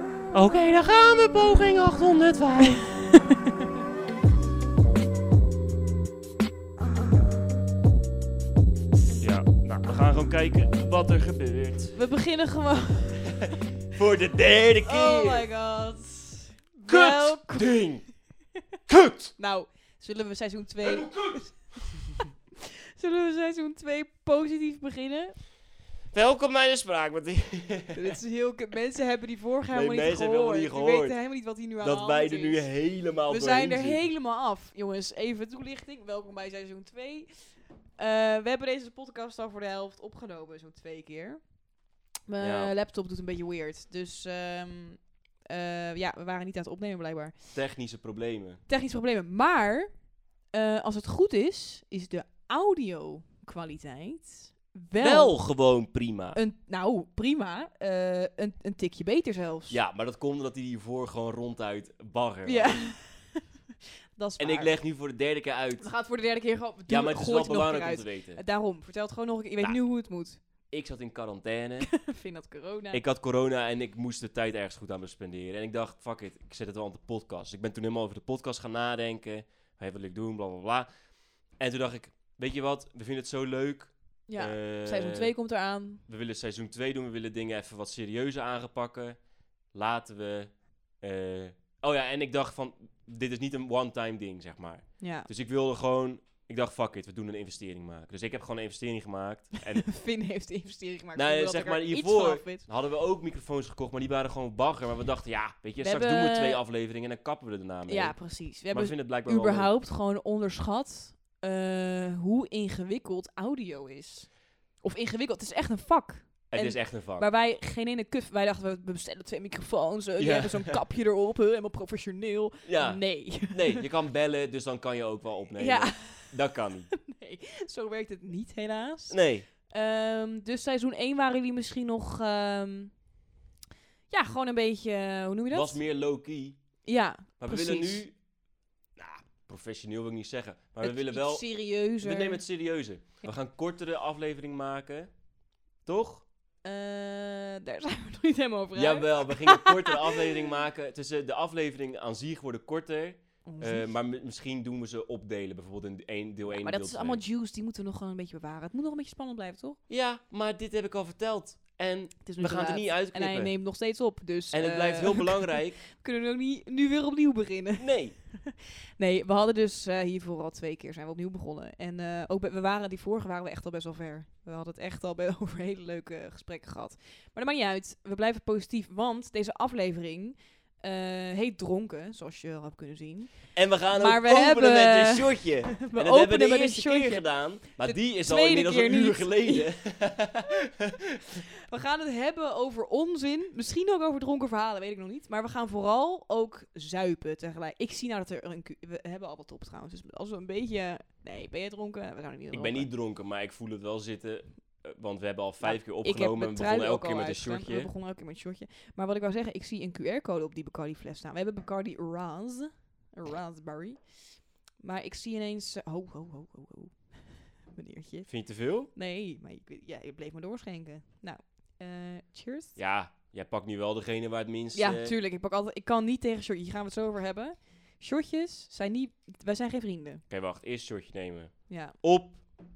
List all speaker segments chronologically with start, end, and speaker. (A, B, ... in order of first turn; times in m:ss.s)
0:00.3-0:02.9 A
0:02.8-0:03.5 B
0:09.2-0:11.9 A
0:11.9-0:13.5 B
0:13.9-0:15.4 A
0:14.8-0:17.9 B
0:16.9-0:18.0 A
0:18.9-0:19.3 A
0:19.4-0:21.9 B
0:20.8-0:21.4 A
0:22.9-0:25.4 B
0:26.1-0:28.2 A
0:27.9-0:32.7 B
0:29.7-0:31.2 A
0:31.8-0:34.0 A
0:33.2-0:41.4 B
0:42.3-0:47.4 B
0:42.4-0:42.7 A
0:47.5-0:48.6 A
0:48.7-0:49.9 B
0:50.5-0:55.4 B
0:55.0-0:56.4 A
0:56.3-0:59.8 B
0:59.7-1:03.0 A
1:02.4-1:03.4 B
1:04.2-1:04.7 B
1:04.4-1:05.9 A
1:05.8-1:10.4 B
1:06.9-1:08.4 A
1:10.7-1:11.9 A
1:11.8-1:13.0 B
1:12.9-1:20.9 A
1:21.6-1:25.3 A
1:24.3-1:26.0 B
1:26.1-1:29.2 A
1:29.7-1:39.8 A
1:35.0-1:35.3 B
1:39.7-1:42.6 B
1:41.2-1:49.7 A
1:45.8-1:46.6 B
1:47.9-2:03.8 B
1:56.5-1:57.3 A
2:00.2-2:00.8 A
2:02.6-2:06.9 A
2:05.6-2:06.4 B
2:06.9-2:12.9 B
2:09.1-2:09.4 A
2:14.1-2:15.8 B
2:15.5-2:16.6 A
2:16.8-2:18.0 B
2:17.4-2:18.2 A
2:19.0-2:21.4 A
2:20.8-2:22.4 B
2:22.0-2:25.1 A
2:25.8-2:26.2 A
2:26.6-2:30.2 B
2:28.7-2:37.2 A
2:33.4-2:33.9 B
2:36.5-2:39.8 B
2:39.9-2:43.5 A
2:42.2-3:07.3 B
2:44.5-2:45.8 A
2:47.8-2:48.2 A
3:03.5-3:11.2 A
3:07.8-3:09.7 B
3:11.7-3:22.9 B
3:22.5-3:27.9 A
3:25.6-3:34.0 B
3:34.8-3:38.3 B
3:38.3-3:38.9 A
3:38.9-3:42.8 B
3:42.8-3:45.1 A
3:44.7-3:50.2 B
3:50.3-3:52.4 A
3:51.7-3:52.0 B